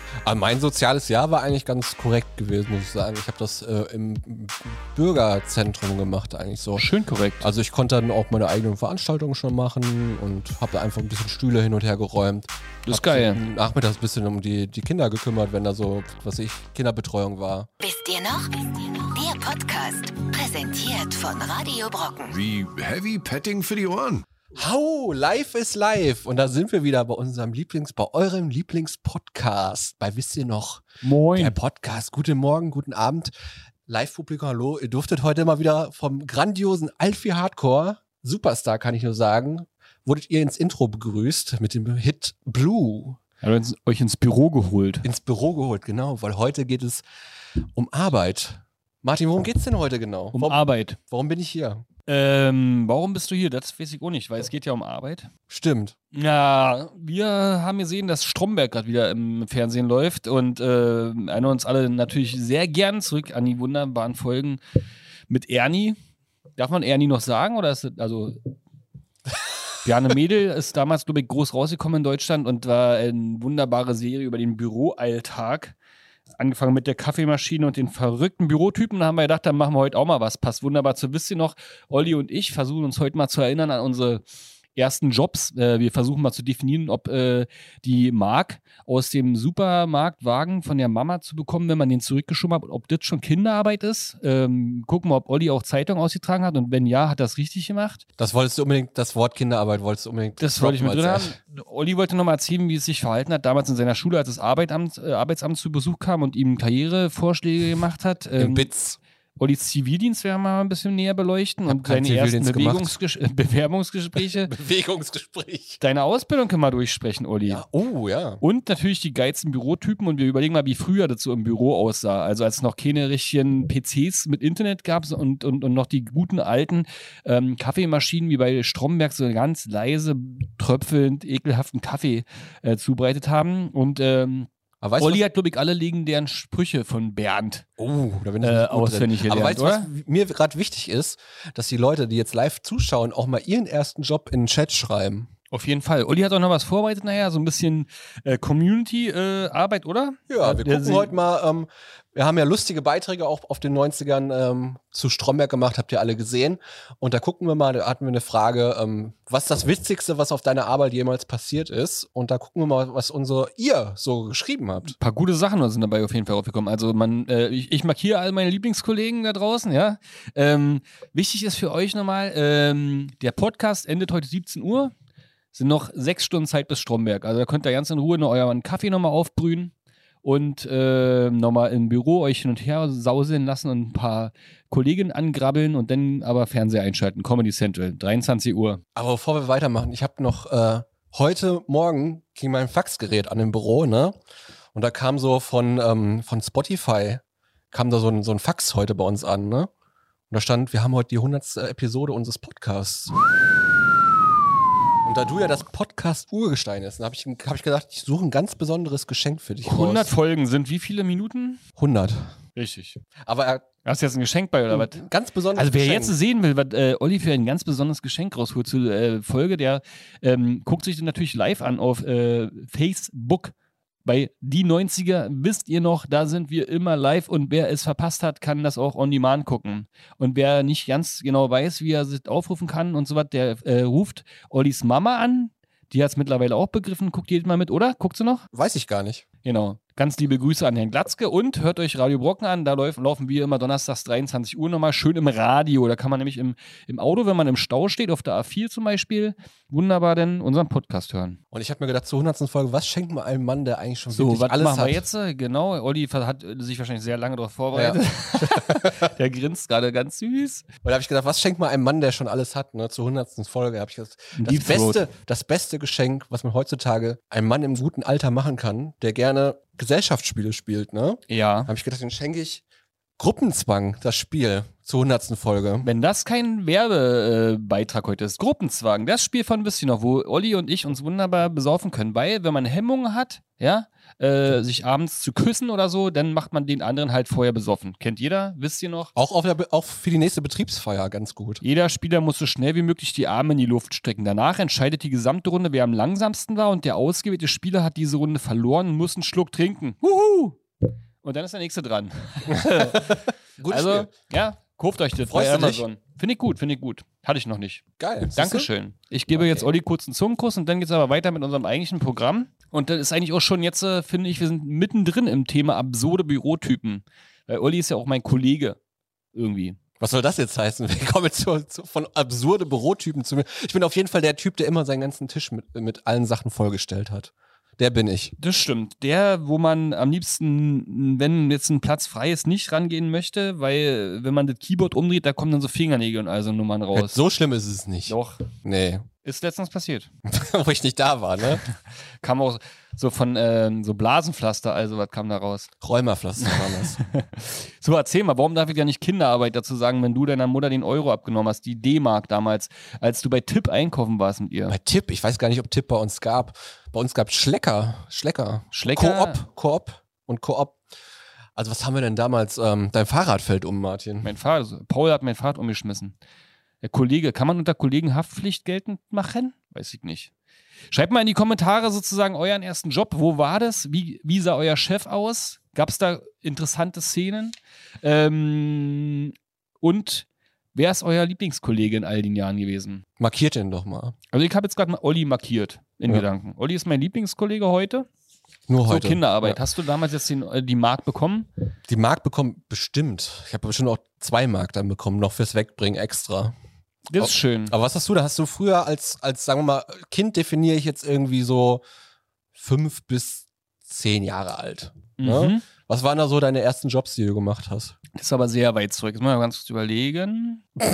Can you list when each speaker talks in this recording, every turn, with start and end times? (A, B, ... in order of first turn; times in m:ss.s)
0:00.2-0:06.9 A
0:06.8-0:07.5 B
0:07.4-0:17.7 A
0:12.8-0:13.4 B
0:17.8-0:22.3 C
0:22.3-0:24.2 D
0:24.5-0:33.3 A
0:31.0-0:31.6 B
0:33.9-0:43.2 A
0:43.4-0:45.0 B
0:45.0-0:47.0 A
0:47.7-0:51.8 A
0:50.3-0:51.0 B
0:52.0-0:55.3 B
0:55.5-0:56.0 A
0:56.1-1:04.6 B
1:05.3-1:06.0 B
1:06.6-1:08.5 B
1:09.8-1:15.8 B
1:16.4-1:24.2 B
1:24.7-1:38.0 B
1:38.2-1:41.3 A
1:40.4-1:48.7 B
1:48.4-1:49.0 A
1:49.4-1:54.5 B
1:51.7-1:52.9 A
1:54.3-1:55.8 A
1:55.8-1:57.6 B
1:57.4-1:58.4 A
1:58.4-2:14.5 B
2:14.8-2:15.2 A
2:15.0-2:17.6 B
2:17.8-2:25.3 A
2:18.4-2:19.9 B
2:25.5-2:31.1 B
2:30.3-2:44.9 A
2:44.9-2:54.9 B
2:55.5-2:59.7 B
3:00.2-3:08.8 B
3:08.9-3:14.2 A
3:14.7-3:19.7 A
3:20.3-3:23.1 A
3:25.0-3:30.1 A
3:29.6-3:31.6 B
3:31.8-3:32.3 A
3:32.6-3:33.0 B
3:33.3-3:33.6 A
3:33.8-3:35.0 B
3:34.7-3:36.1 A
3:35.5-3:43.5 B
3:44.0-3:58.4 B
3:58.5-3:59.2 A
3:59.4-4:11.4 B
4:11.5-4:15.0 A
4:14.1-4:20.6 B
4:17.7-4:19.1 A
4:20.8-4:32.6 A
4:24.4-4:25.0 B
4:31.3-4:31.7 B
4:33.2-4:35.9 A
4:35.8-4:49.1 B
4:49.1-4:51.6 A
4:51.6-5:00.6 B
5:01.2-5:07.8 B
5:02.5-5:04.1 A
5:05.3-5:05.8 A
5:08.0-5:08.7 A
5:08.4-5:18.8 B
5:09.4-5:09.6 A
5:19.3-5:19.8 B
5:20.0-5:28.3 A
5:28.4-5:37.2 B
5:36.9-5:39.1 A
5:38.1-5:38.4 B
5:39.2-5:40.1 B
5:40.2-5:41.6 A
5:42.2-5:45.7 B
5:45.8-5:47.0 A
5:46.4-5:54.8 B
5:54.7-6:00.8 A
5:58.7-5:59.4 B
6:01.6-6:04.3 A
6:04.2-6:06.2 B
6:06.8-6:10.3 B
6:10.9-6:23.0 B
6:23.2-6:24.2 A
6:24.3-6:28.1 B
6:28.7-6:29.6 A
6:28.8-6:31.5 B
6:31.9-6:36.5 A
6:37.1-6:37.7 B
6:37.2-6:41.8 A
6:42.5-6:48.0 A
6:45.2-6:45.6 B
6:48.1-6:50.7 B